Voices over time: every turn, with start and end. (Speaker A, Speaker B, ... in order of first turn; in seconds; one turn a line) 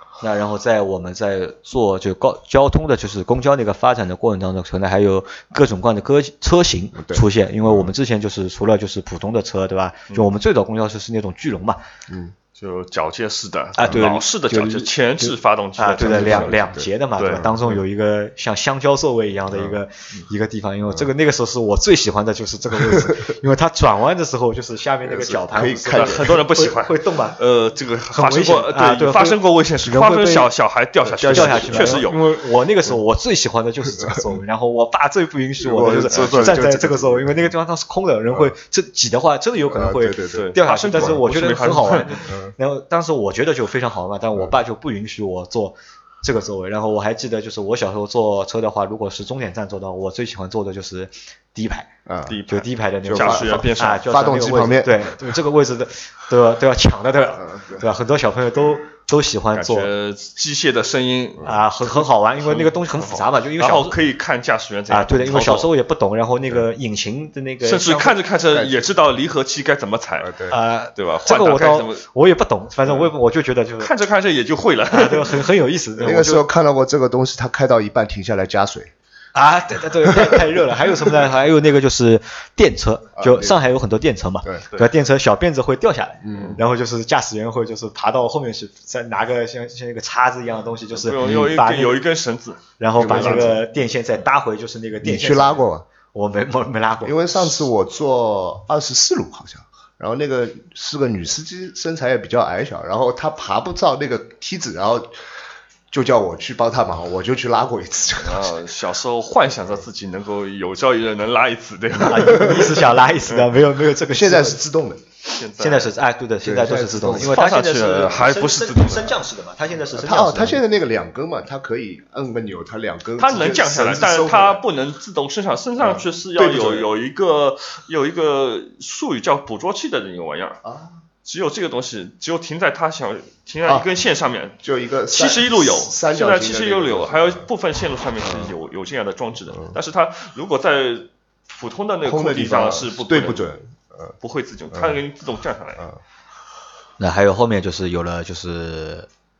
Speaker A: 0.2-11.8
Speaker B: 7.0-7.9
Speaker B: 12.1-12.3
Speaker C: 12.6-16.6
Speaker A: 13.8-27.4
Speaker B: 16.0-17.5
Speaker C: 17.2-17.8
Speaker B: 22.7-23.3
Speaker B: 25.0-26.4
Speaker C: 25.6-32.2
Speaker A: 28.1-30.5
Speaker B: 31.1-32.0
Speaker A: 31.2-51.9
Speaker B: 35.6-37.5
Speaker C: 36.1-36.6
Speaker B: 39.7-41.2
Speaker C: 40.3-42.3
Speaker B: 42.3-42.5
Speaker B: 52.0-52.4
Speaker C: 52.3-54.0
Speaker A: 52.5-59.9
Speaker B: 53.0-55.1
Speaker B: 57.4-57.8
Speaker C: 59.5-65.7
Speaker A: 61.4-64.0
Speaker A: 64.9-68.2
Speaker C: 67.6-70.3
Speaker B: 70.2-70.5
Speaker A: 70.5-73.9
Speaker C: 71.0-72.0
Speaker C: 73.8-75.5
Speaker A: 74.9-76.4
Speaker B: 76.0-78.9
Speaker A: 79.3-92.0
Speaker B: 80.1-80.4
Speaker B: 83.2-83.6
Speaker B: 86.2-86.6
Speaker C: 90.9-93.5
Speaker B: 91.2-91.5
Speaker A: 92.8-97.7
Speaker B: 93.0-93.6
Speaker B: 95.0-95.8
Speaker B: 97.0-105.2
Speaker B: 105.9-108.5
Speaker C: 108.2-113.5
Speaker A: 112.0-114.6
Speaker B: 112.3-112.7
Speaker B: 114.1-115.0
Speaker C: 115.3-115.9
Speaker A: 115.6-120.6
Speaker B: 116.4-117.4
Speaker C: 117.1-119.2
Speaker B: 119.9-124.6
Speaker C: 123.2-130.6
Speaker B: 125.8-126.9
Speaker B: 130.6-130.9
Speaker C: 131.2-143.4
Speaker B: 134.6-137.4
Speaker B: 138.2-138.5
Speaker B: 142.0-144.1
Speaker C: 144.2-145.8
Speaker B: 144.7-145.0
Speaker A: 147.0-149.1